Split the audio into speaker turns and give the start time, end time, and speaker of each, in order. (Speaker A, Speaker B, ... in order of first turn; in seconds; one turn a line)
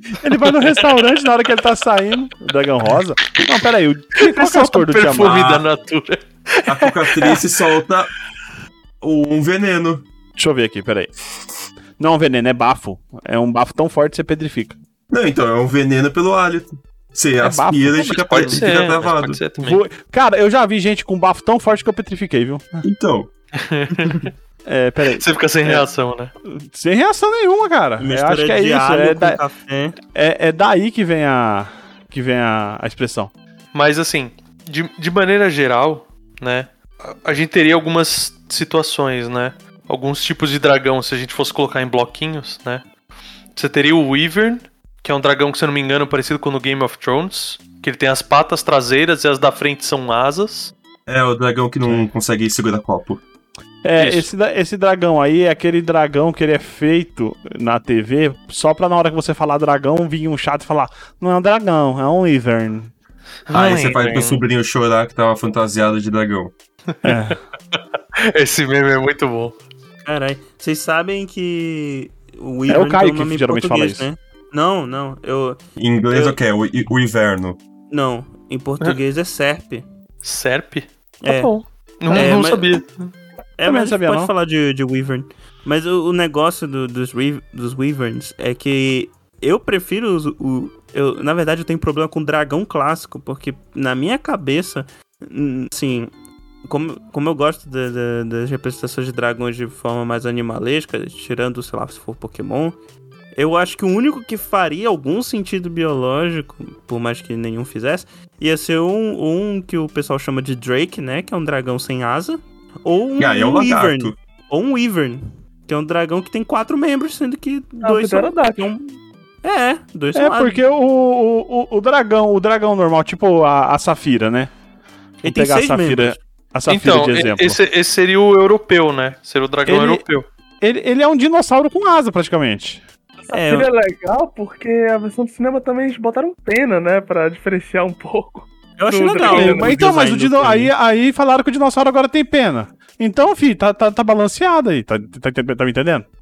Speaker A: 0.2-5.3
Speaker B: 0.5-1.2
Speaker B: 4.2-7.4
Speaker C: 5.2-5.7
Speaker C: 6.7-8.1
Speaker C: 9.0-10.0
Speaker A: 10.4-11.1
Speaker A: 12.0-14.8
Speaker C: 15.1-19.4
Speaker A: 17.4-18.6
Speaker B: 17.9-19.8
Speaker A: 19.6-22.8
Speaker C: 22.8-23.3
Speaker B: 23.5-24.3
Speaker A: 24.6-25.8
Speaker B: 25.2-26.3
Speaker A: 26.5-29.4
Speaker D: 28.0-29.9
Speaker A: 30.1-33.3
Speaker B: 33.7-42.8
Speaker B: 43.5-50.7
Speaker C: 51.1-53.2
Speaker A: 53.8-62.9
Speaker B: 54.0-54.3
Speaker B: 63.5-64.4
Speaker C: 63.5-66.5
Speaker B: 67.0-69.6
Speaker A: 67.0-67.4
Speaker D: 70.0-75.6
Speaker A: 72.7-74.1
Speaker C: 75.8-77.6
Speaker D: 77.9-79.8
Speaker B: 80.2-83.1
Speaker D: 81.2-81.5
Speaker D: 82.1-82.7
Speaker D: 83.6-96.1
Speaker A: 83.6-84.3
Speaker D: 96.6-102.8
Speaker D: 103.3-120.6
Speaker C: 113.2-114.2
Speaker E: 117.8-118.7
Speaker A: 120.1-124.5
Speaker A: 125.2-127.6
Speaker D: 125.2-126.2
Speaker B: 126.7-130.2
Speaker A: 129.7-130.0
Speaker A: 130.6-132.8
Speaker E: 133.3-139.7
Speaker D: 133.3-133.7
Speaker D: 138.8-140.7
Speaker A: 139.2-146.1